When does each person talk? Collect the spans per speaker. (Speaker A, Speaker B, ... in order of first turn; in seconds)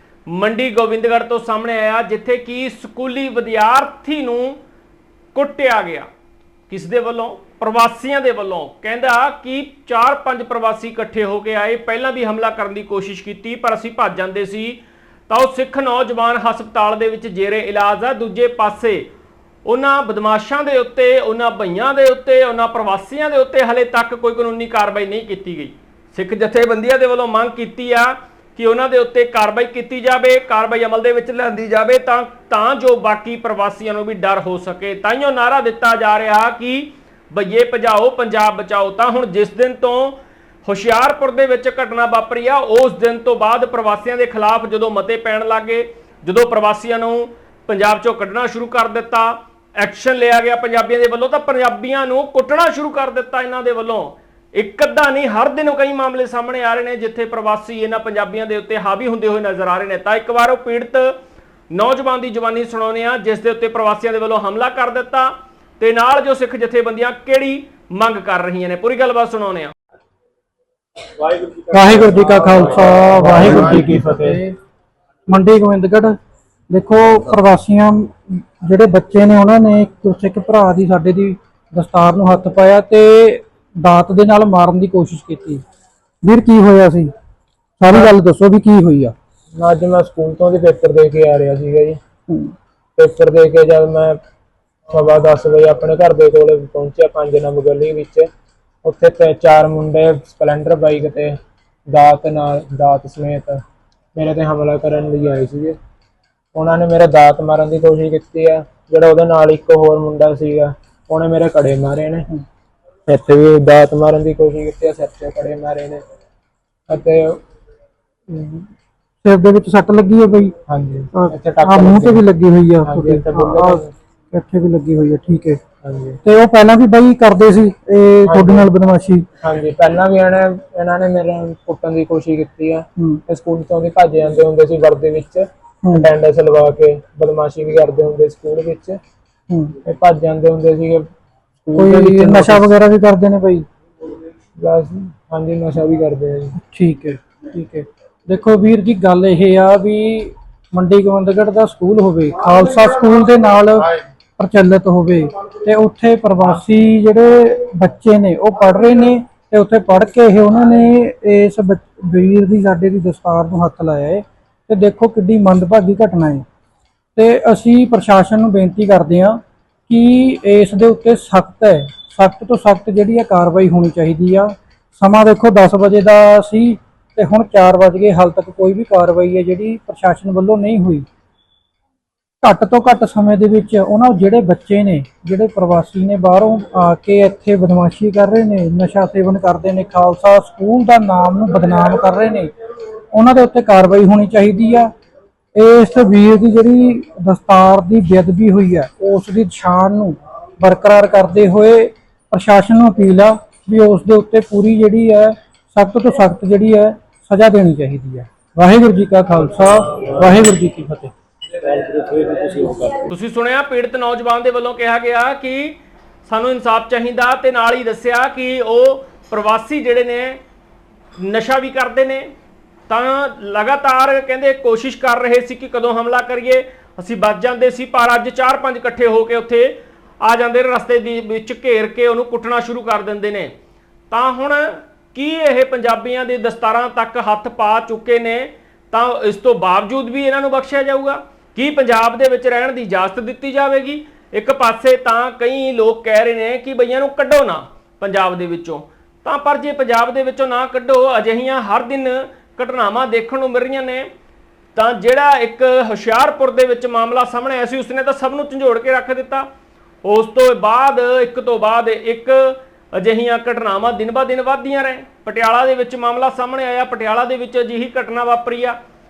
Speaker A: 0.3-4.6, 5.3-6.1, 6.7-19.1, 19.6-61.2, 61.7-69.7, 213.1-220.4, 221.2-222.3, 222.9-233.5, 234.1-254.1, 254.8-259.5, 260.0-268.8
Speaker B: 71.7-74.6, 75.3-76.2, 76.7-85.6, 86.2-87.1, 87.8-89.2, 92.3-92.5, 118.3-118.7, 119.2-120.5, 121.1-125.6, 126.2-129.2, 135.8-136.1, 139.5-139.8, 141.8-143.7, 146.6-166.4, 167.2-181.1, 182.4-192.5, 193.1-194.9, 195.6-211.1
Speaker C: 72.5-74.4, 89.6-92.0, 93.0-94.2, 94.9-98.3, 98.8-103.6, 104.2-105.8, 106.5-112.3, 113.1-116.0, 116.9-117.4, 120.7-122.2, 122.8-123.9, 125.8-126.2, 128.3-128.7, 129.4-139.0, 139.8-141.1, 141.6-142.7, 144.6-146.6, 211.6-213.0